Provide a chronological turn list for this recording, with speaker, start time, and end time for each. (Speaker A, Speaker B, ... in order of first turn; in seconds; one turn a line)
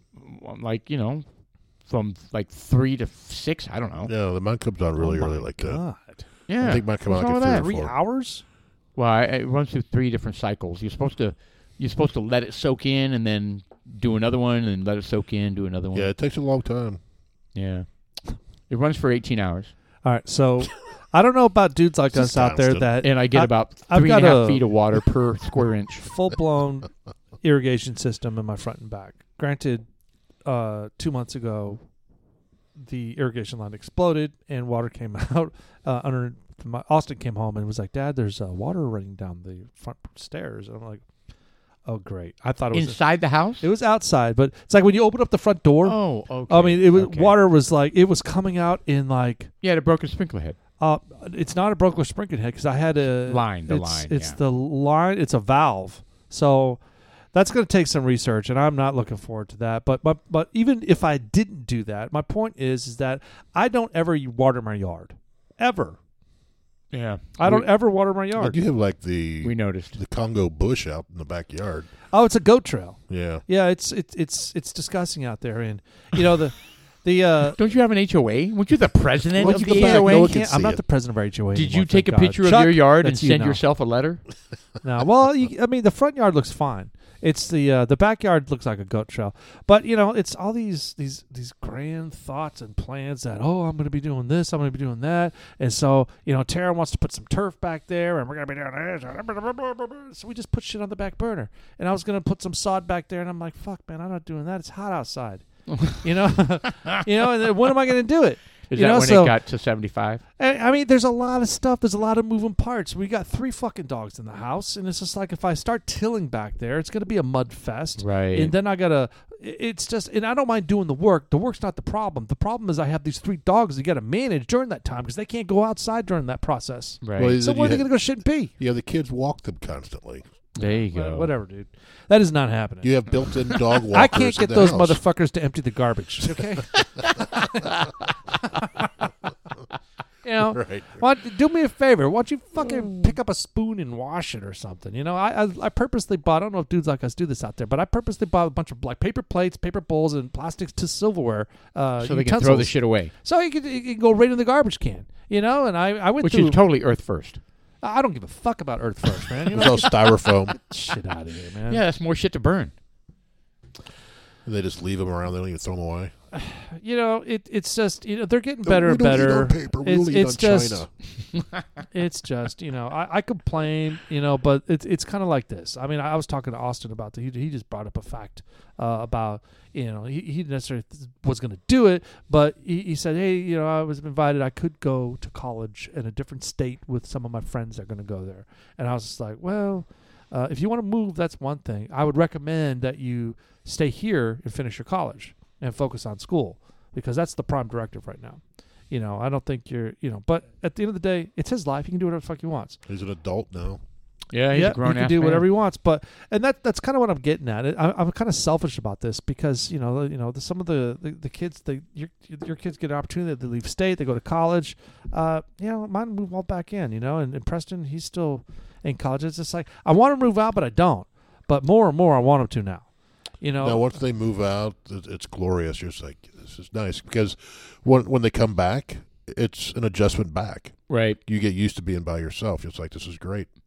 Speaker A: 0.2-1.3
Speaker A: 1.9-4.1
Speaker B: 4.1-5.8
Speaker C: 5.0-6.2
Speaker A: 6.5-7.7
Speaker B: 6.6-7.9
Speaker C: 7.5-8.4
Speaker A: 9.0-16.1
Speaker B: 15.9-17.0
Speaker A: 17.6-17.9
Speaker A: 18.7-19.7
Speaker C: 20.0-24.6
Speaker B: 22.1-22.9
Speaker A: 23.0-26.1
Speaker C: 26.0-26.9
Speaker C: 27.4-29.9
Speaker C: 30.4-31.8
Speaker C: 32.8-41.0
Speaker C: 41.9-43.0
Speaker A: 42.7-43.7
Speaker C: 43.6-49.5
Speaker A: 45.8-47.4
Speaker A: 49.6-50.6
Speaker C: 50.8-56.8
Speaker A: 53.2-54.4
Speaker C: 57.3-66.0
Speaker A: 66.9-67.7
Speaker C: 67.4-68.6
Speaker B: 68.4-71.9
Speaker A: 69.4-70.0
Speaker C: 72.1-77.6
Speaker B: 73.1-73.4
Speaker A: 77.5-80.4
Speaker B: 79.4-80.8
Speaker C: 79.4-83.6
Speaker A: 81.5-84.2
Speaker C: 84.8-109.4
Speaker A: 105.7-106.0
Speaker A: 108.7-110.2
Speaker C: 110.4-128.5
Speaker A: 118.0-118.5
Speaker A: 127.0-127.4
Speaker B: 127.2-127.9
Speaker B: 128.6-130.2
Speaker A: 130.6-131.3
Speaker C: 130.6-133.0
Speaker B: 132.8-135.0
Speaker C: 133.9-137.7
Speaker C: 138.6-138.8
Speaker C: 140.2-156.6
Speaker B: 140.5-141.0
Speaker A: 152.0-153.1
Speaker A: 156.2-157.4
Speaker C: 157.8-161.8
Speaker B: 159.5-160.6
Speaker A: 161.7-162.7
Speaker B: 164.4-166.1
Speaker C: 166.3-170.9
Speaker B: 168.6-170.9
Speaker C: 171.9-202.8
Speaker B: 202.9-203.8
Speaker A: 204.3-205.5
Speaker C: 204.5-222.9
Speaker C: 223.4-223.9
Speaker B: 223.6-233.5
Speaker A: 230.9-231.2